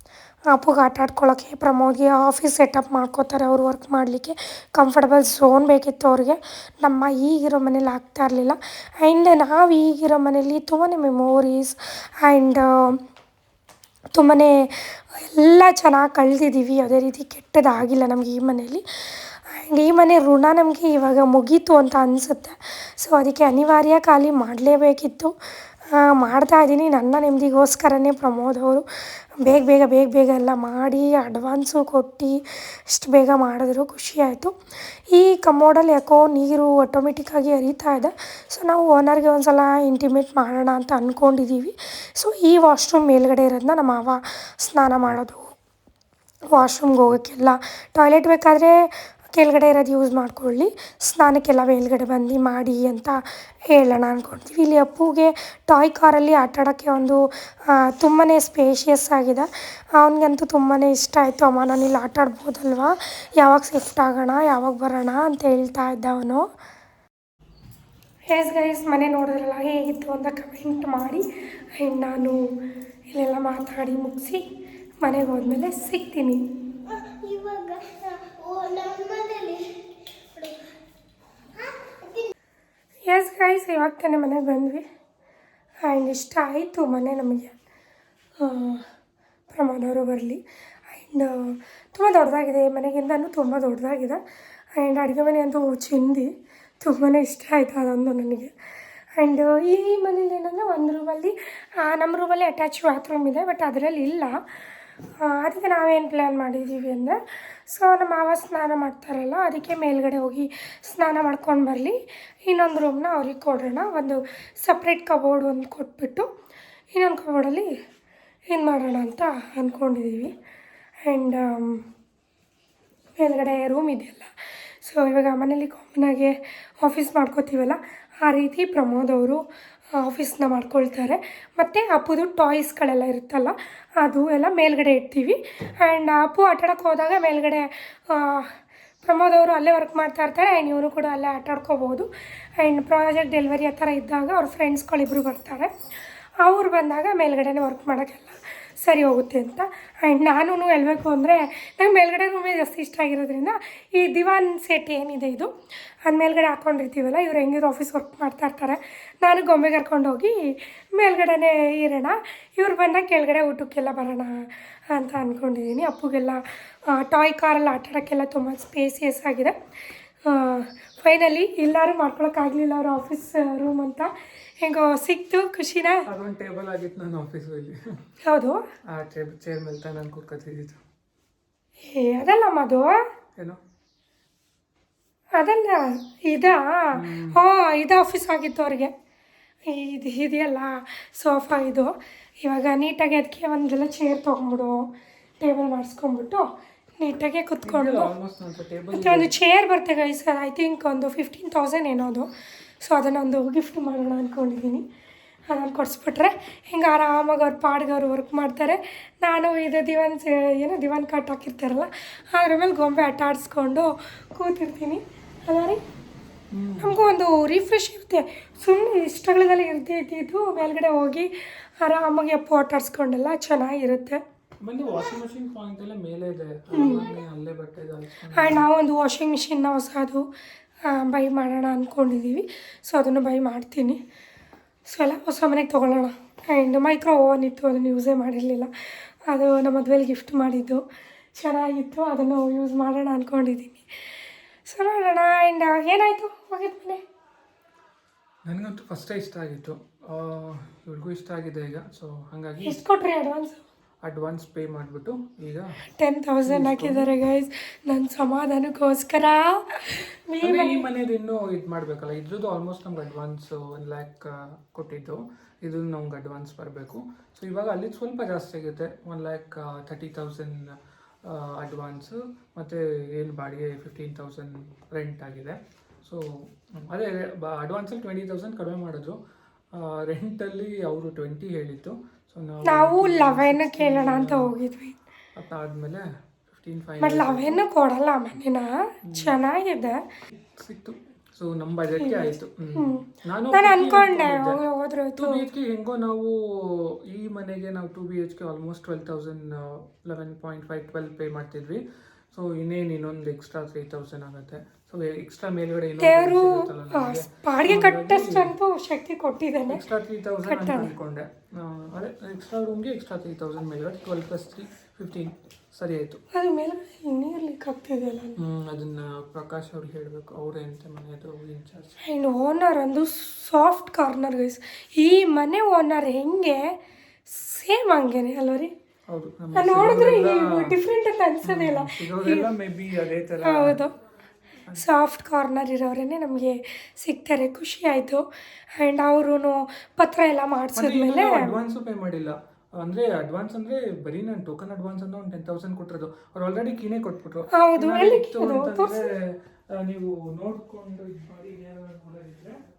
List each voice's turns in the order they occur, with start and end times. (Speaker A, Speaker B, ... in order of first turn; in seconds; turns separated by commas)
Speaker A: 0.5-13.0, Speaker A: 14.1-25.3, Speaker A: 25.9-28.8, Speaker A: 29.4-34.5, Speaker A: 35.1-45.5, Speaker A: 46.5-66.5, Speaker A: 68.3-72.4, Speaker A: 73.1-74.4, Speaker A: 75.0-76.4, Speaker B: 76.9-80.6, Speaker B: 81.6-82.3, Speaker A: 83.1-84.8, Speaker A: 85.8-87.5, Speaker A: 88.4-88.8, Speaker A: 89.5-94.2, Speaker A: 94.8-96.3, Speaker A: 96.8-98.5, Speaker A: 99.2-104.3, Speaker A: 105.2-107.2, Speaker A: 107.7-116.3, Speaker A: 116.9-117.7, Speaker A: 118.5-120.3, Speaker A: 121.0-121.8, Speaker A: 123.2-124.3, Speaker A: 124.8-129.4, Speaker A: 129.9-145.7, Speaker A: 146.4-155.5, Speaker A: 156.0-169.6, Speaker A: 170.2-176.1, Speaker C: 176.1-178.0, Speaker A: 178.2-178.6, Speaker C: 178.9-180.8, Speaker A: 181.8-183.0, Speaker A: 185.3-188.9, Speaker C: 186.9-187.4, Speaker A: 189.7-194.9, Speaker A: 195.4-196.5, Speaker A: 197.0-198.1, Speaker C: 197.6-199.3, Speaker A: 198.9-202.3, Speaker A: 202.8-204.8, Speaker A: 205.5-215.8, Speaker C: 216.5-217.0, Speaker A: 216.8-224.2, Speaker C: 224.6-228.7, Speaker A: 226.7-227.1, Speaker A: 228.3-230.2, Speaker A: 230.8-234.0, Speaker A: 234.8-238.7, Speaker A: 239.3-240.8, Speaker A: 241.3-243.8, Speaker A: 244.7-247.0, Speaker C: 248.4-252.8, Speaker A: 252.6-253.6, Speaker C: 254.0-255.7, Speaker A: 256.0-260.8, Speaker C: 256.4-257.1, Speaker C: 260.4-279.2, Speaker C: 279.7-284.5, Speaker A: 282.6-284.9, Speaker C: 285.4-287.6, Speaker A: 287.0-290.0, Speaker C: 289.0-289.4, Speaker C: 290.5-294.6, Speaker A: 292.0-295.5, Speaker C: 295.2-308.5, Speaker A: 306.0-309.8, Speaker C: 309.7-316.2, Speaker A: 310.4-310.9, Speaker A: 316.3-318.4, Speaker C: 318.4-321.9, Speaker A: 322.0-328.7, Speaker C: 329.1-330.8, Speaker A: 329.5-332.5, Speaker C: 331.4-333.8, Speaker A: 333.4-333.9, Speaker A: 334.8-338.2, Speaker A: 338.8-341.5, Speaker C: 340.8-352.6, Speaker A: 347.5-349.0